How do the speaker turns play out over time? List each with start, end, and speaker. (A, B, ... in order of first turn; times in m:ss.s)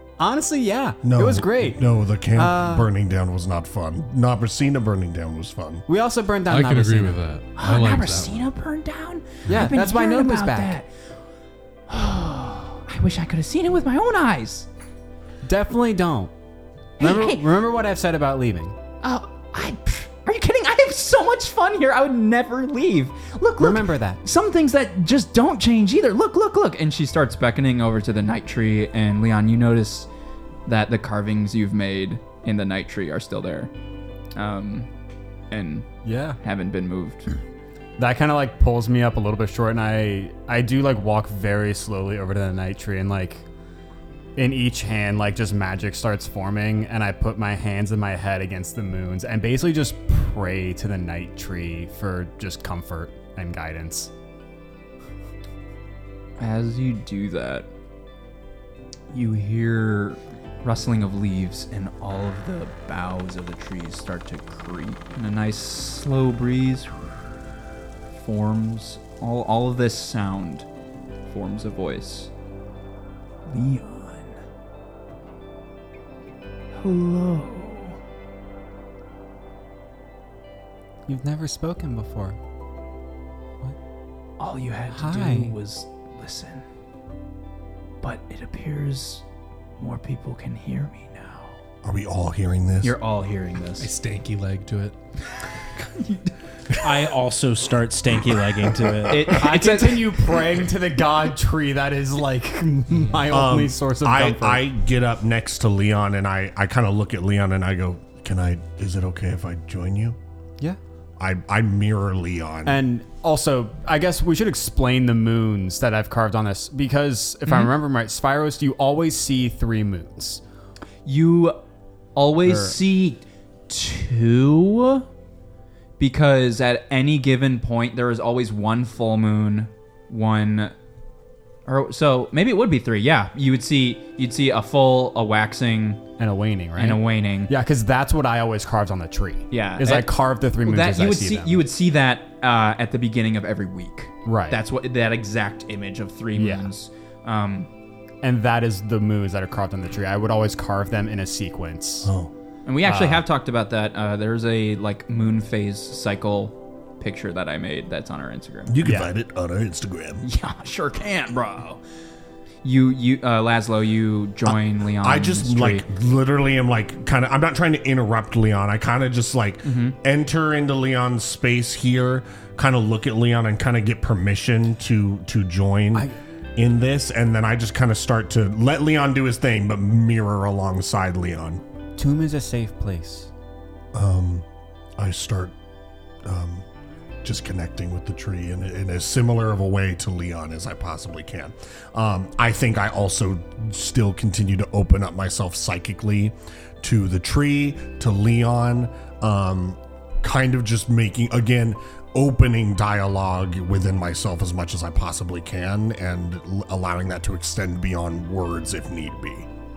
0:00.2-0:02.9 A
0:01.0-0:05.9 B
0:05.9-0:07.2 A
0:06.5-0:08.5 C
0:07.6-0:10.9 D
0:09.5-0:10.8 A
0:11.9-0:14.7 D
0:15.4-0:16.3 A
0:17.0-0:18.8 A
0:17.0-0:17.5 D
0:19.0-0:30.1 D
0:23.6-0:24.2 A
0:30.7-0:33.7 D
0:34.4-0:34.9 D
0:35.5-0:35.9 D
0:36.0-0:36.4 A
0:36.4-0:37.3 D
0:38.0-0:43.4 A
0:44.4-0:54.1 A
0:56.4-0:57.7 D
0:59.1-1:07.3 D
1:08.1-1:10.7 D
1:11.3-1:12.3 D
1:13.5-1:14.4 D
1:16.7-1:18.0 D
1:21.1-1:22.4 A
1:24.4-1:26.7 D
1:24.9-1:25.6 A
1:28.0-1:29.2 D
1:29.8-1:31.6 D
1:31.8-1:33.0 B
1:32.8-1:33.9 D
1:33.8-1:35.0 C
1:35.8-1:36.3 D
1:36.8-1:39.3 E
1:39.1-1:40.3 D
1:39.3-1:44.6 A
1:43.3-1:50.2 B
1:51.2-1:52.8 B
1:52.6-2:00.4 A
2:01.0-2:01.6 D
2:02.2-2:05.1 D
2:02.4-2:02.8 A
2:06.0-2:10.7 D
2:11.7-2:16.0 D
2:16.2-2:21.6 A
2:16.8-2:17.5 D
2:19.5-2:27.7 D
2:24.2-2:24.6 A
2:26.4-2:26.7 A
2:28.2-2:32.1 A
2:32.0-2:32.3 B
2:32.7-2:38.7 D
2:32.8-2:33.2 A
2:38.7-2:40.2 B
2:38.8-2:39.1 A
2:40.2-2:41.8 D
2:42.6-2:45.8 D
2:44.5-3:01.6 B
2:49.6-2:50.0 D
3:02.0-3:03.3 A
3:03.9-3:04.4 B
3:05.0-3:05.5 B
3:06.2-3:06.6 B
3:07.2-3:29.5 B